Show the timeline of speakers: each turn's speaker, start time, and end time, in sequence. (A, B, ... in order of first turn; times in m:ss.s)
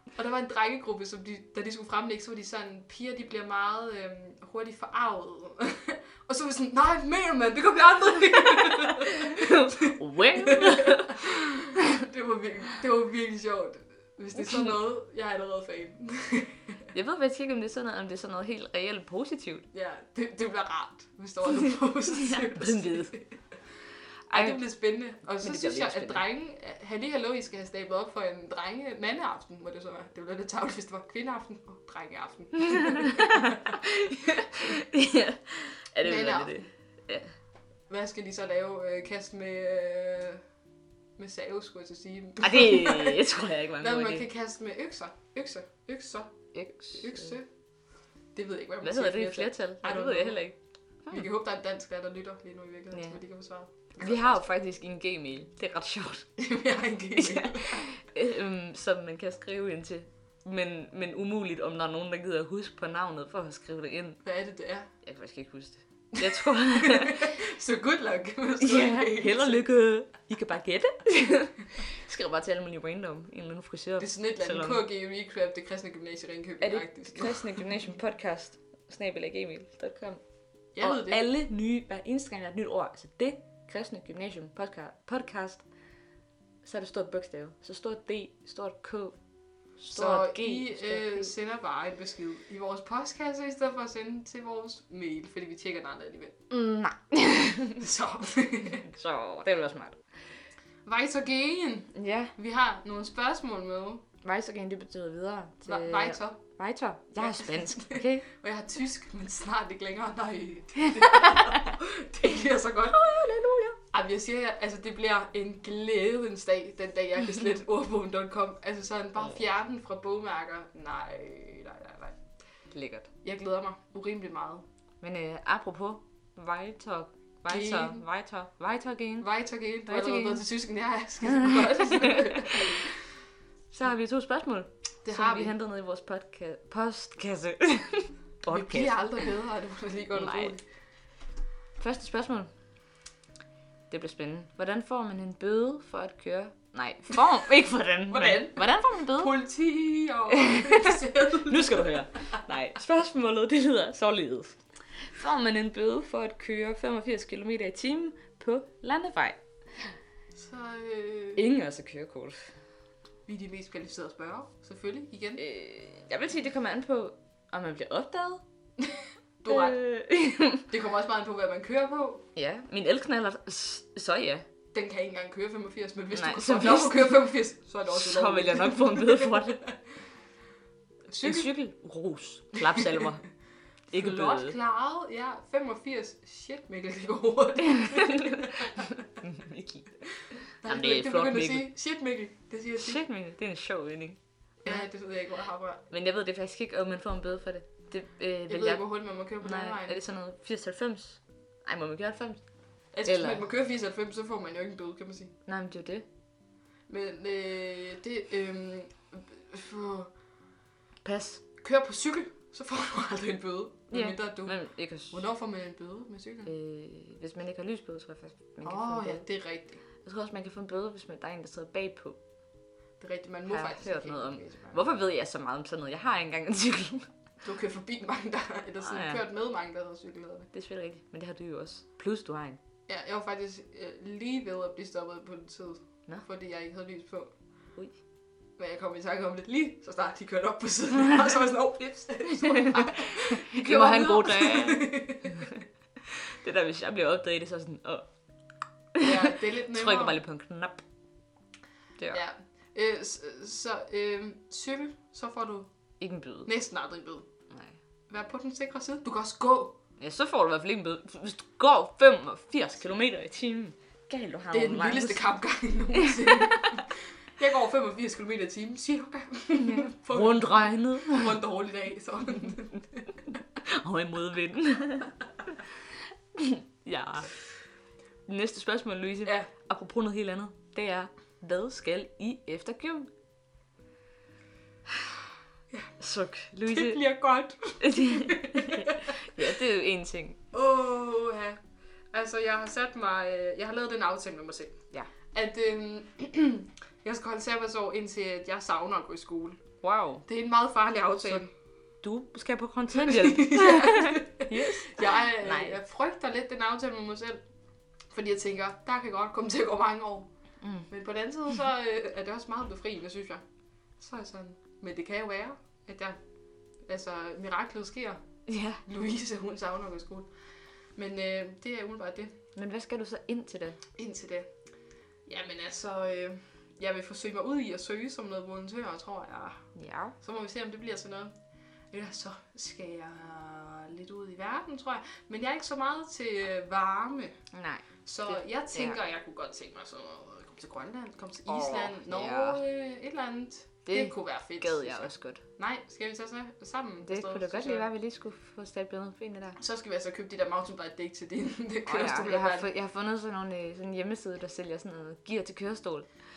0:00.2-0:16.8 A
0:09.3-0:11.3 B
0:14.4-0:14.7 B
0:16.9-0:19.7 B
0:19.7-0:23.4 A
0:22.3-0:23.2 B
0:24.3-0:24.6 B
0:24.3-0:33.8 A
0:25.4-0:26.2 B
0:33.2-0:37.3 B
0:36.0-0:36.7 A
0:37.9-0:40.4 A
0:41.2-0:43.2 A
0:42.4-0:44.3 B
0:43.8-0:47.5 A
0:46.5-0:47.3 B
0:48.3-0:50.5 A
0:48.8-0:51.2 B
0:51.1-0:54.4 A
0:52.9-0:53.2 B
0:54.0-0:56.4 B
0:56.4-0:57.9 A
0:57.2-1:04.2 B
1:04.2-1:04.9 A
1:05.0-1:07.3 B
1:06.2-1:09.6 A
1:08.6-1:14.8 B
1:14.0-1:17.7 A
1:16.6-1:20.2 B
1:20.8-1:21.2 A
1:20.8-1:25.6 B
1:26.6-1:29.2 B
1:29.8-1:31.3 B
1:29.9-1:36.4 A
1:36.5-1:37.8 B
1:37.8-1:38.9 A
1:38.9-1:40.0 B
1:40.8-1:44.0 A
1:42.0-1:42.3 B
1:44.2-1:48.2 B
1:45.6-1:46.4 A
1:47.2-1:53.0 A
1:52.9-1:53.8 B
1:53.9-2:02.2 A
2:02.7-2:03.1 B
2:03.2-2:04.7 A
2:05.0-2:09.3 B
2:07.5-2:08.0 A
2:09.2-2:13.0 A
2:09.9-2:10.4 B
2:11.3-2:12.6 B
2:13.7-2:19.2 B
2:15.0-2:15.5 A
2:18.5-2:20.6 A
2:20.1-2:20.6 B
2:21.8-2:22.5 B
2:23.9-2:29.3 B
2:28.1-2:32.2 A
2:30.4-2:39.9 B
2:40.4-2:41.4 A
2:41.4-2:42.5 B
2:43.3-2:45.4 A
2:45.4-2:48.4 B
2:49.4-2:49.8 A
2:49.5-2:50.6 B
2:50.7-2:52.2 A
2:52.4-2:54.4 B
2:54.7-2:59.8 A
2:56.1-2:57.2 B
2:57.9-2:59.7 B
3:01.1-3:01.5 A
3:01.2-3:03.4 B
3:03.9-3:04.6 B
3:03.9-3:09.0 A
3:07.7-3:10.1 B
3:10.6-3:13.0 A
3:10.6-3:11.7 B
3:12.8-3:14.9 B
3:14.6-3:15.8 A
3:15.9-3:22.5 B
3:18.5-3:20.0 A
3:22.9-3:25.3 A
3:23.0-3:23.4 B
3:25.5-3:26.0 B
3:26.9-3:30.1 A
3:31.0-3:31.4 B
3:31.6-3:36.5 A
3:33.9-3:35.2 B
3:36.5-3:39.3 B
3:38.6-3:39.8 A
3:40.0-3:42.2 B
3:43.0-3:44.8 A
3:43.5-3:47.1 B
3:47.4-3:50.5 A
3:48.8-3:49.2 B
3:50.5-3:52.6 B
3:52.9-3:57.4 A
3:58.6-4:05.4 A
4:02.6-4:05.5 B
4:06.3-4:08.1 B
4:09.0-4:10.8 B
4:09.0-4:10.2 A
4:12.1-4:15.7 A
4:16.0-4:16.5 B
4:16.5-4:17.3 A
4:17.5-4:17.8 B
4:18.1-4:19.8 A
4:20.0-4:25.3 B
4:24.5-4:33.1 A
4:26.2-4:26.5 B
4:29.6-4:31.4 B
4:33.6-4:35.2 B
4:36.4-4:37.5 B
4:38.3-4:43.1 B
4:39.2-4:39.5 A
4:46.0-4:47.0 B
4:46.7-4:49.1 A
4:47.8-4:50.4 B
4:50.5-4:51.6 A
4:52.1-4:54.8 A
4:55.3-4:59.6 A
4:59.8-5:00.2 B
5:00.3-5:01.5 A
5:02.0-5:05.8 B
5:02.9-5:07.4 A
5:08.1-5:10.3 A
5:10.6-5:10.9 B
5:10.9-5:13.4 A
5:14.0-5:16.2 A
5:16.8-5:18.2 A
5:18.5-5:18.8 B
5:18.8-5:22.4 A
5:22.6-5:23.8 B
5:24.0-5:24.5 A
5:25.3-5:31.4 A
5:29.8-5:30.2 B
5:31.9-5:37.4 A
5:37.5-5:39.0 B
5:38.0-5:47.9 A
5:41.5-5:42.6 B
5:43.9-5:45.4 B
5:47.0-5:49.6 B
5:49.6-5:52.7 A
5:51.9-5:56.1 B